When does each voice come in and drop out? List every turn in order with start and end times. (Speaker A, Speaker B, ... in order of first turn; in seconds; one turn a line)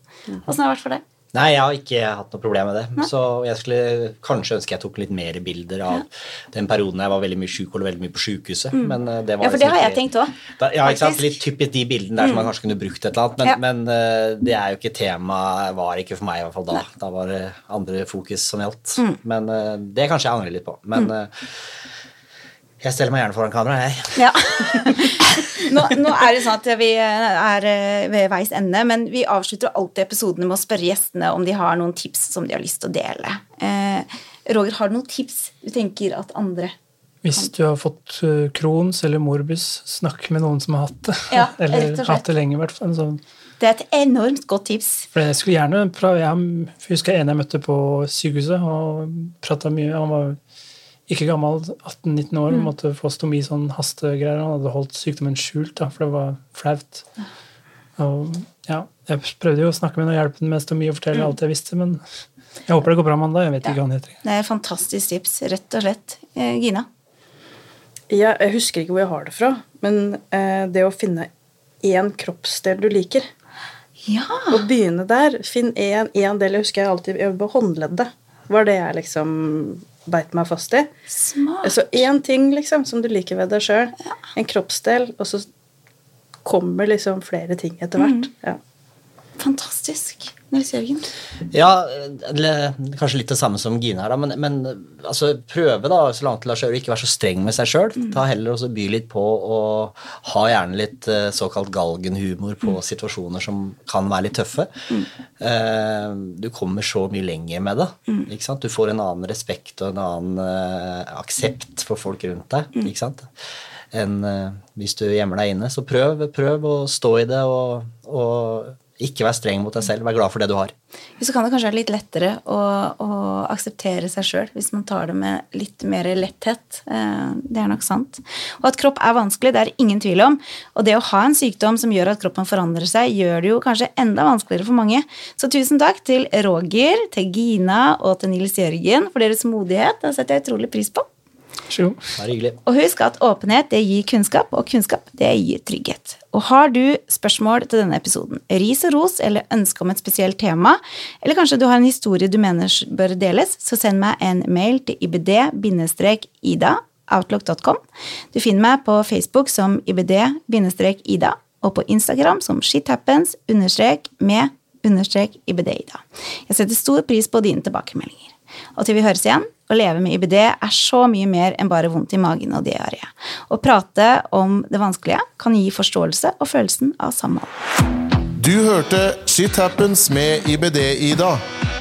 Speaker A: 0.5-1.0
Speaker B: 1.3-10.0
Speaker A: 8.7-11.4
Speaker B: 10.5-21.5
Speaker A: 12.2-12.5
Speaker B: 22.8-24.6
Speaker A: 24.2-36.8
Speaker C: 37.2-43.2
Speaker A: 41.3-42.3
Speaker A: 43.6-45.1
Speaker C: 45.1-50.4
Speaker C: 51.1-57.1
Speaker C: 58.0-62.0
Speaker C: 62.7-64.2
Speaker A: 63.6-66.9
Speaker D: 68.1-71.3
Speaker D: 71.8-73.3
Speaker A: 74.0-74.7
Speaker D: 74.5-80.9
Speaker A: 81.1-81.8
Speaker D: 81.6-85.5
Speaker D: 86.5-88.6
Speaker A: 88.0-88.3
Speaker A: 89.4-91.1
Speaker B: 91.5-104.7
Speaker B: 105.4-113.3
Speaker B: 113.9-120.7
Speaker A: 121.2-141.1
Speaker C: 141.7-142.0
Speaker B: 142.2-142.6
Speaker A: 142.7-157.8
Speaker A: 158.3-177.5
Speaker E: 178.4-181.4